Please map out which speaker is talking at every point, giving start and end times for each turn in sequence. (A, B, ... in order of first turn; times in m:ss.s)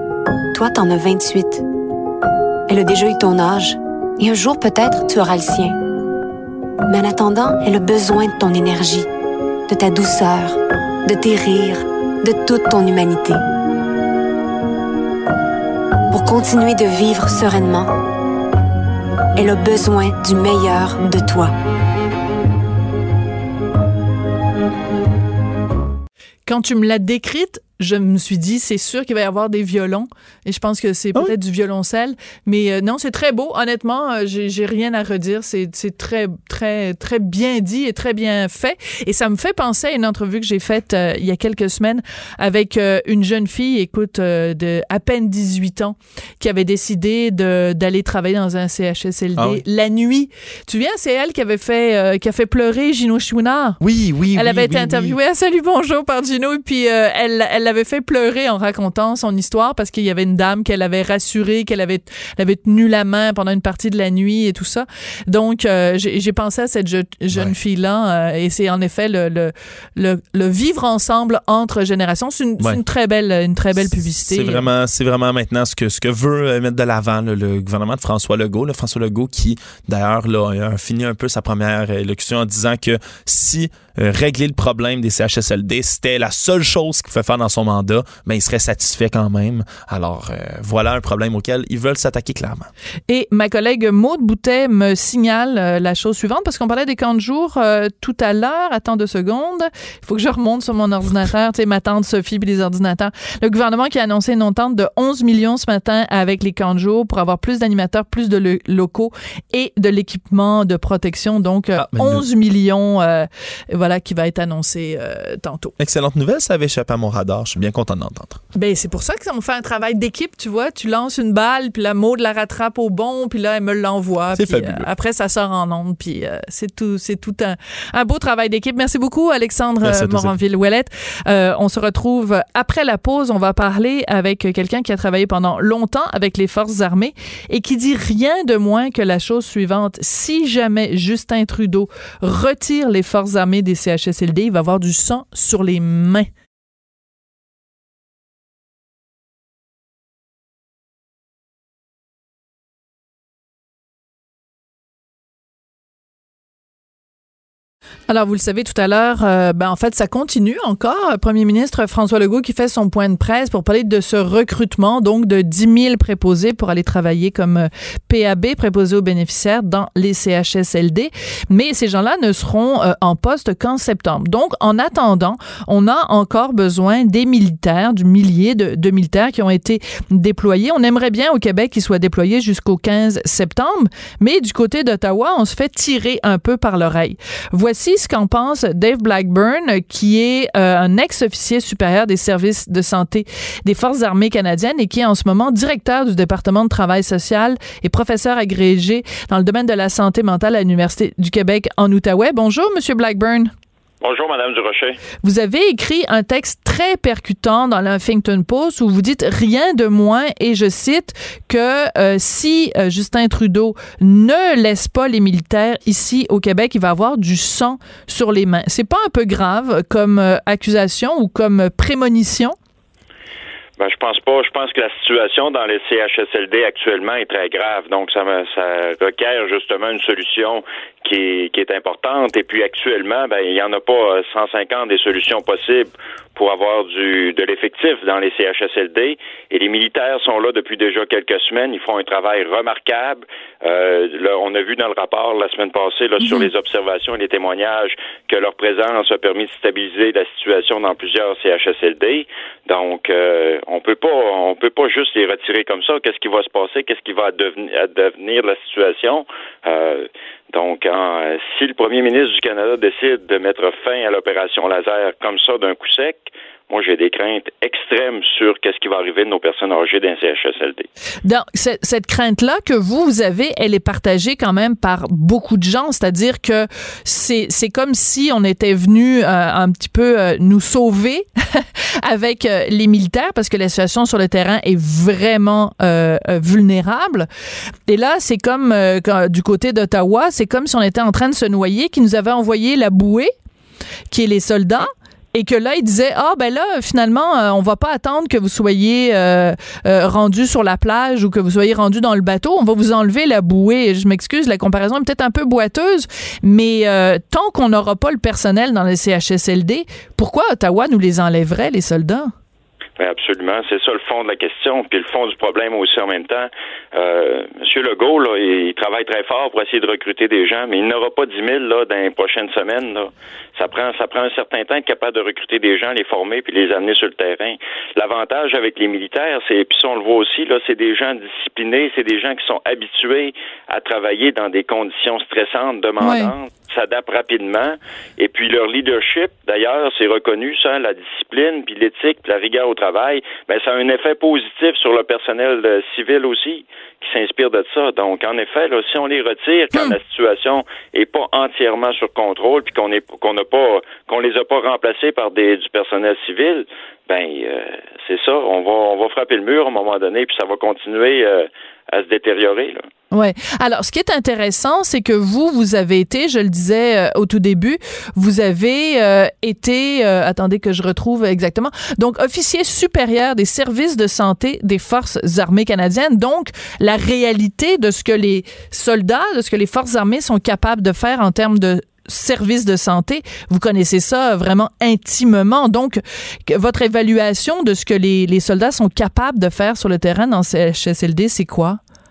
0:00.5-0:01.6 A
0:02.7-0:05.8 A
0:06.9-0:09.1 A
0:09.7-0:13.4 A
0:16.1-0:17.9 A
0:19.4-0:21.5 A
0:26.5-0:53.8 B
0:49.4-0:49.6 C
0:53.8-0:55.2 C
0:54.3-1:14.7 B
1:13.8-1:32.7 C
1:33.1-1:55.8 B
1:51.8-1:52.2 C
1:55.8-1:58.4 C
1:58.6-2:26.3 B
2:04.3-2:04.9 C
2:09.8-2:10.4 C
2:38.1-3:23.5 B
3:24.0-3:25.0 D
3:25.2-3:42.6 B
3:43.8-4:30.9 D
4:31.2-4:47.3 B
4:47.9-4:53.3 B
4:54.1-5:12.3 B
5:13.0-6:02.9 D
5:36.0-5:36.3 B
6:03.1-6:31.8 B